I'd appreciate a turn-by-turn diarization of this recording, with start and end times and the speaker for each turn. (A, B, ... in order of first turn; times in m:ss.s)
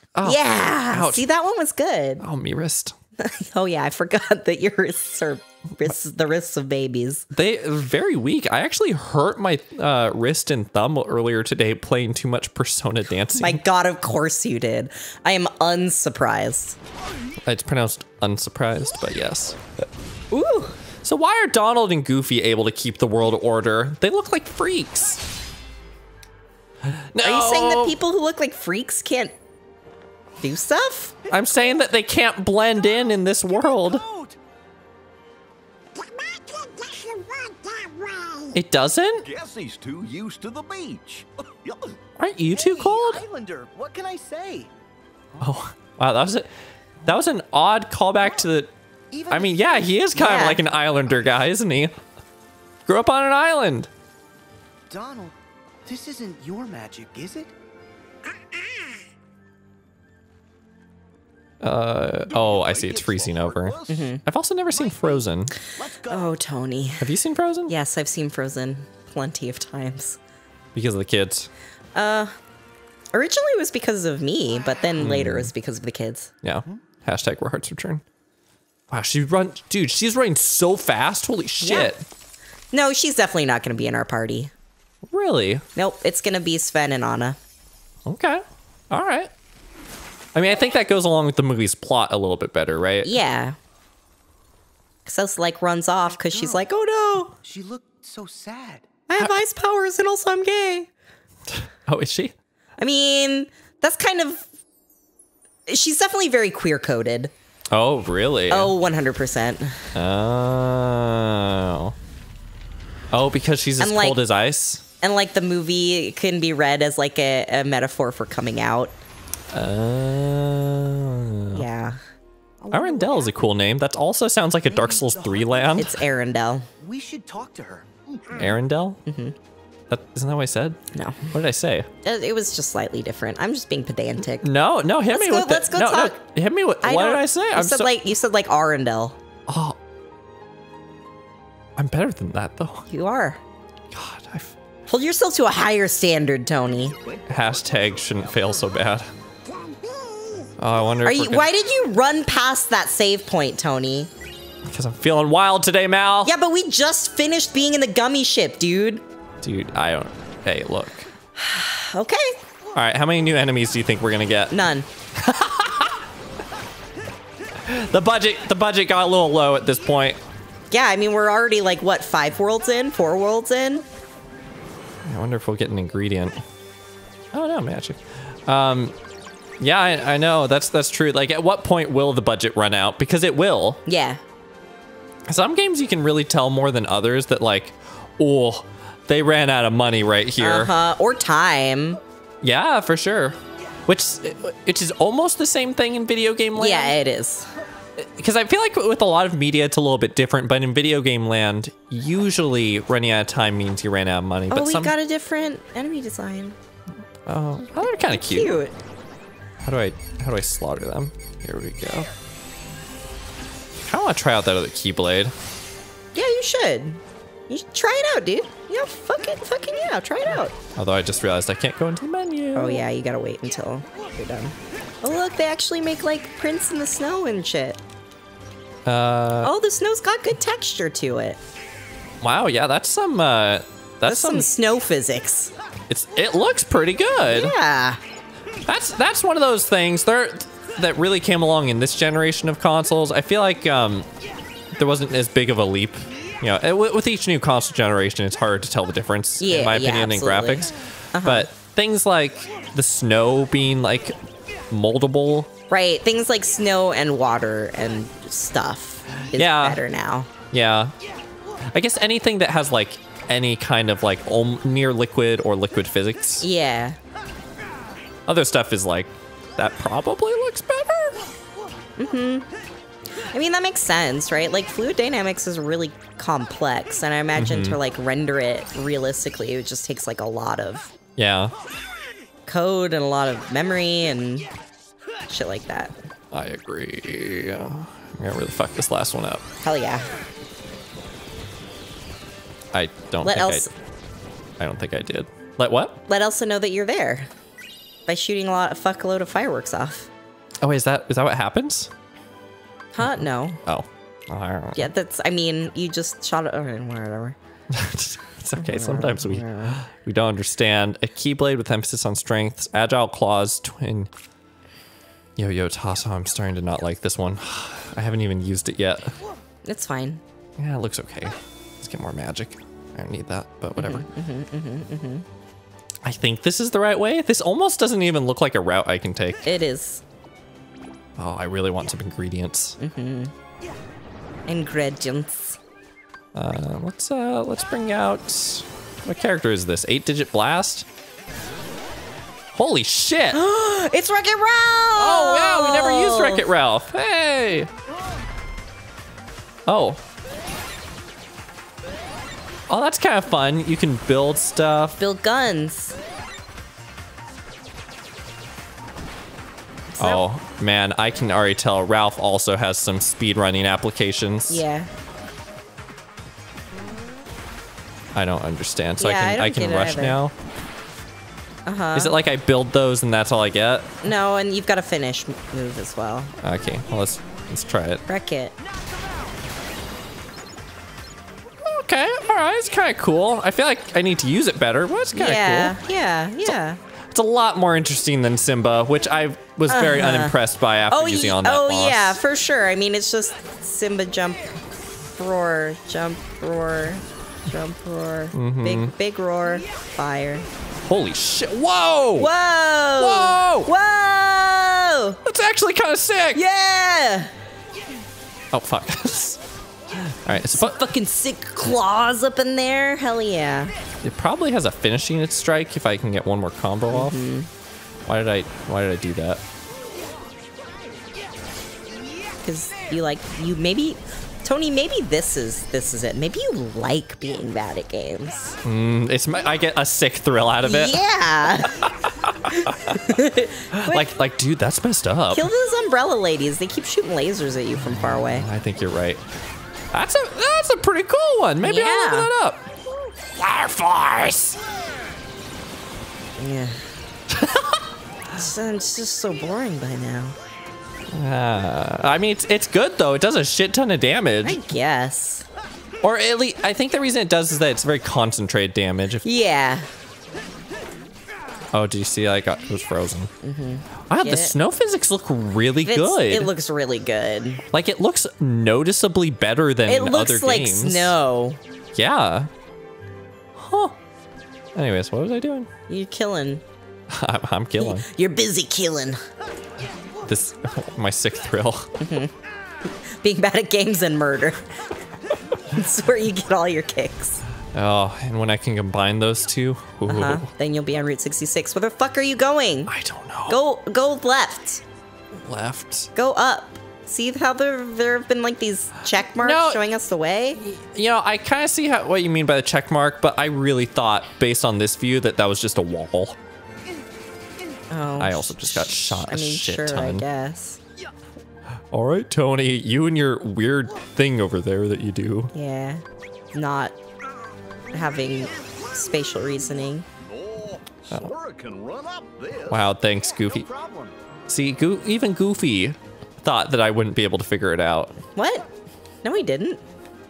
0:00.1-0:01.3 A
0:00.2-0:02.2 B
0:02.2-0:03.0 A
0:03.2-0:07.3 B
0:07.3-0:13.6 A
0:13.4-0:16.8 B
0:17.4-0:19.6 A
0:20.3-0:20.8 B
0:21.0-0:25.2 A
0:26.9-0:28.0 A
0:27.2-0:29.3 B
0:30.4-0:31.2 B
0:31.2-0:31.6 C
0:31.3-0:34.0 A
0:33.5-0:34.4 C
0:38.5-0:39.3 A
0:39.2-0:42.0 D
0:42.2-0:43.2 A
0:42.5-0:44.7 C
0:45.4-0:46.5 A
0:47.0-0:48.7 A
0:49.1-0:50.6 C
0:49.3-0:52.0 A
0:50.1-0:50.6 B
0:52.8-0:53.9 A
0:54.9-0:57.5 C
1:01.6-1:05.5 A
1:02.3-1:04.2 D
1:03.9-1:04.2 B
1:04.7-1:06.3 C
1:06.1-1:07.1 B
1:07.0-1:07.7 A
1:07.7-1:10.2 B
1:10.7-1:11.5 A
1:11.9-1:12.4 B
1:13.1-1:16.3 B
1:15.0-1:15.5 A
1:16.4-1:18.0 A
1:18.9-1:22.0 A
1:21.6-1:21.9 B
1:22.7-1:24.5 B
1:25.1-1:25.6 A
1:25.8-1:27.4 B
1:28.0-1:29.3 A
1:30.3-1:33.2 A
1:33.0-1:33.6 B
1:35.0-1:37.4 B
1:36.1-1:36.7 C
1:37.4-1:38.9 C
1:39.1-1:40.9 B
1:41.5-1:42.3 A
1:42.8-1:44.5 B
1:45.7-1:47.3 B
1:47.7-1:48.7 A
1:48.5-1:49.9 B
1:49.9-1:51.9 A
1:53.1-1:54.8 A
1:53.8-1:54.2 B
1:55.0-1:59.0 B
1:59.5-2:01.7 A
2:01.5-2:02.0 B
2:02.6-2:03.4 C
2:02.7-2:05.9 A
2:04.6-2:06.0 C
2:05.8-2:06.7 B
2:06.8-2:08.5 C
2:08.3-2:09.0 A
2:09.0-2:09.3 B
2:09.9-2:10.8 A
2:10.9-2:11.2 B
2:11.3-2:11.9 A
2:12.0-2:14.5 B
2:14.4-2:17.9 A
2:15.1-2:16.2 B
2:16.8-2:19.2 B
2:19.5-2:19.8 A
2:21.8-2:22.9 A
2:22.9-2:23.4 B
2:23.9-2:24.5 A
2:24.9-2:27.0 B
2:26.6-2:28.9 D
2:27.3-2:29.1 A
2:30.6-2:31.5 A
2:31.0-2:34.1 B
2:34.6-2:36.3 A
2:36.2-2:39.0 B
2:39.4-2:41.1 A
2:41.4-2:42.4 B
2:42.7-2:44.6 A
2:44.5-2:44.9 B
2:45.1-2:46.0 A
2:47.6-2:50.2 A
2:50.7-2:53.8 B
2:55.0-2:56.4 A
2:57.3-2:59.0 A
2:59.6-3:03.8 A
3:03.8-3:04.2 B
3:05.3-3:10.7 A
3:10.4-3:12.0 B
3:12.4-3:17.0 A
3:16.5-3:17.5 B
3:18.0-3:24.9 A
3:24.5-3:26.6 B
3:27.2-3:28.6 A
3:28.0-3:28.8 B
3:29.6-3:32.1 A
3:33.8-3:35.3 A
3:36.1-3:40.5 B
3:40.8-3:42.8 A
3:42.5-3:47.8 B
3:48.8-3:49.5 A
3:49.4-3:51.4 B
3:52.2-3:54.5 A
3:54.0-3:55.5 B
3:55.9-3:57.5 A
3:57.2-3:58.0 B
3:58.6-4:04.1 A
4:04.8-4:14.2 A
4:09.4-4:11.5 B
4:14.7-4:15.5 A
4:15.7-4:20.3 B
4:19.4-4:19.8 A
4:20.5-4:20.9 A
4:21.7-4:26.4 A
4:26.4-4:27.0 B
4:28.2-4:31.2 A
4:32.0-4:32.5 B
4:33.3-4:40.9 B
4:37.3-4:37.8 A
4:41.2-4:41.5 A
4:42.5-4:44.5 B
4:45.3-4:45.9 B
4:46.3-4:49.4 A
4:49.6-4:50.1 B
4:52.7-4:53.7 A
4:53.2-4:53.7 B
4:54.6-4:56.0 A
4:56.1-4:57.3 B
4:58.1-5:00.1 B
5:00.6-5:01.9 A
5:02.9-5:03.6 B
5:03.0-5:04.9 A
5:04.7-5:07.4 B
5:07.7-5:14.1 A
5:08.6-5:09.8 B
5:15.4-5:19.2 A
5:19.6-5:20.2 B
5:20.6-5:24.1 A
5:23.7-5:25.2 B
5:26.0-5:29.4 A
5:29.4-5:30.0 B
5:31.2-5:32.8 A
5:32.8-5:33.3 B
5:34.5-5:35.6 B
5:36.3-5:40.9 A
5:42.5-5:43.4 A
5:43.3-5:46.4 B
5:45.0-5:47.7 A
5:49.7-5:50.0 A
5:52.7-5:55.0 A
5:55.0-5:56.0 B
5:59.9-6:00.2 B
6:00.0-6:04.6 A
6:04.5-6:04.9 B
6:08.1-6:10.3 A
6:09.0-6:10.2 B
6:11.6-6:12.2 B
6:11.9-6:14.1 A
6:14.0-6:16.3 B
6:16.4-6:18.0 A
6:18.1-6:18.5 B
6:21.6-6:25.8 A
6:25.1-6:26.8 B
6:27.1-6:32.2 A
6:29.7-6:30.4 B
6:30.9-6:34.5 B
6:35.1-6:40.5 B
6:38.3-6:38.9 A
6:40.9-6:42.3 A
6:42.2-6:45.2 B
6:43.0-6:43.7 A
6:45.2-6:46.4 A
6:46.3-6:47.3 B
6:48.5-6:49.4 A
6:49.9-6:50.9 A
6:50.3-6:53.7 B
6:54.0-6:57.2 A
6:56.9-6:57.5 B
6:58.0-6:59.4 A
7:02.4-7:08.6 B
7:08.6-7:11.0 A
7:10.6-7:11.8 B
7:11.6-7:13.2 A
7:12.5-7:14.2 B
7:13.8-7:15.5 A
7:15.3-7:18.4 B
7:17.8-7:19.2 A
7:19.9-7:22.7 A
7:21.6-7:22.3 B
7:23.3-7:24.6 A
7:26.4-7:26.8 B
7:27.3-7:27.8 A
7:28.3-7:30.4 B
7:31.1-7:34.6 A
7:34.4-7:35.4 B
7:36.0-7:39.2 A
7:39.2-7:39.9 B
7:41.7-7:43.3 A
7:43.4-7:44.5 B
7:44.1-7:46.5 A
7:45.8-7:47.6 B
7:47.7-7:51.2 A
7:49.9-7:51.6 B
7:51.9-7:52.5 A
7:53.6-7:54.0 A
7:54.7-7:55.7 A
7:55.9-7:56.6 B
7:57.1-7:58.1 A
7:57.8-7:59.2 B
8:00.2-8:01.9 A
8:02.0-8:02.3 B
8:02.9-8:04.6 B
8:05.7-8:07.4 B
8:07.7-8:10.5 A
8:10.1-8:12.9 B
8:12.9-8:13.6 A
8:13.5-8:14.8 B
8:15.3-8:16.1 A
8:16.1-8:20.6 B
8:19.4-8:19.8 A
8:20.6-8:26.4 A
8:27.9-8:30.8 B
8:28.2-8:30.2 A
8:31.9-8:35.5 A
8:35.5-8:37.0 B
8:37.9-8:40.0 B
8:40.2-8:44.1 D
8:42.7-8:43.7 A
8:44.5-8:48.2 A
8:48.4-8:48.7 B
8:49.2-8:49.8 B